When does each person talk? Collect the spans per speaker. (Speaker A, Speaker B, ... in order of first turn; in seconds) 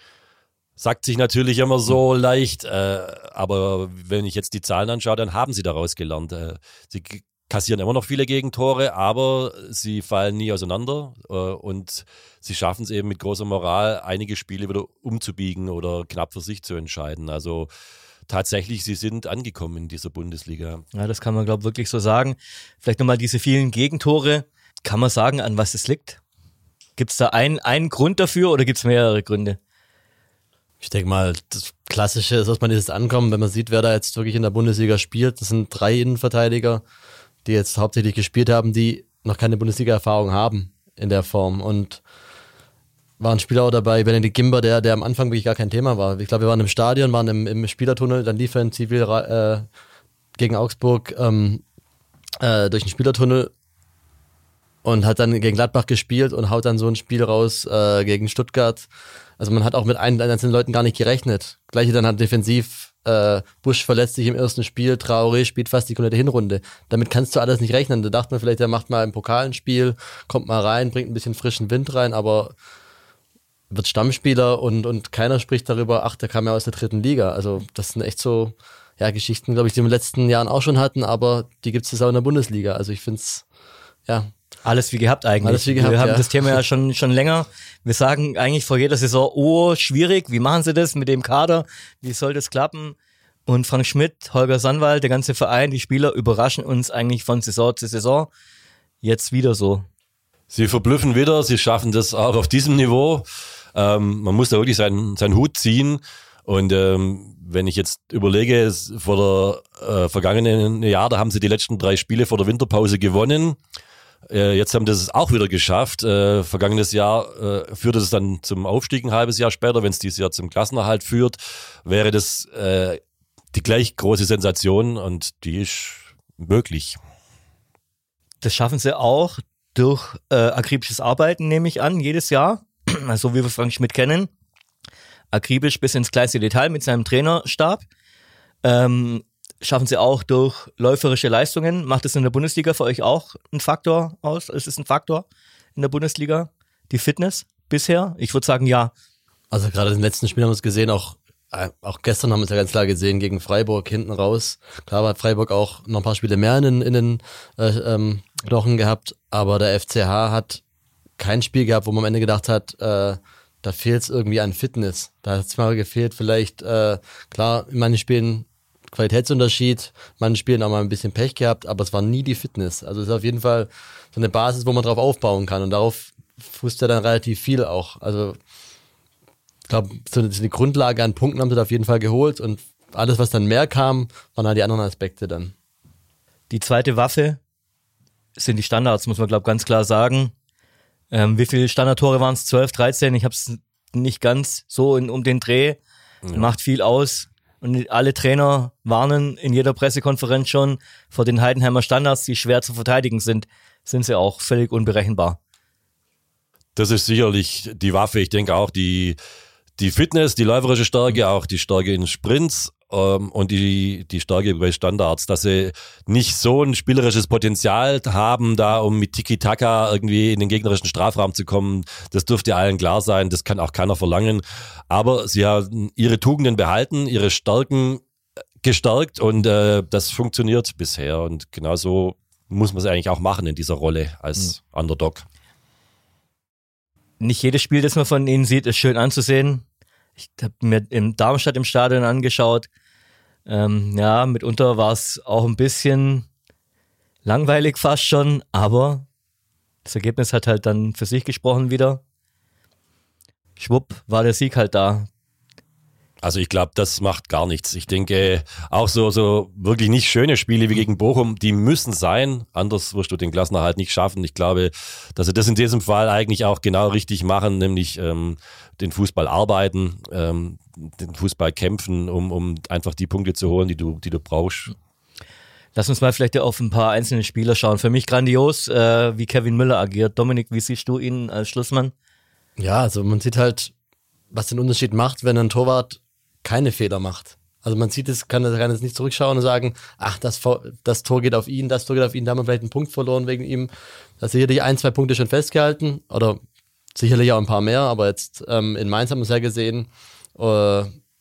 Speaker A: 0.8-17.7, 18.3-20.8, 100.5-113.6, 114.3-123.0, 123.5-127.0, 206.8-209.2, 209.8-228.0, 228.6-235.2, 256.2-274.7
Speaker B: 20.9-26.2, 27.0-29.6, 84.6-93.0, 93.5-98.3, 99.0-99.8, 128.4-134.3, 135.3-137.8, 138.6-145.2, 145.8-148.9, 186.5-187.4, 188.4-190.3, 191.1-195.8, 196.3-205.4, 237.2-239.6, 240.2-242.7, 243.4-246.2, 247.2-249.1, 249.8-252.0, 253.6-255.1, 275.7-281.9
Speaker C: 30.8-36.8, 37.4-42.0, 43.2-49.7, 50.4-51.6, 52.4-53.5, 54.8-58.9, 59.4-72.5, 73.7-83.4, 84.0-84.3, 85.4-86.3, 149.5-160.6, 161.2-178.4, 179.7-185.5, 282.6-283.7, 284.3-296.4, 296.9-300.9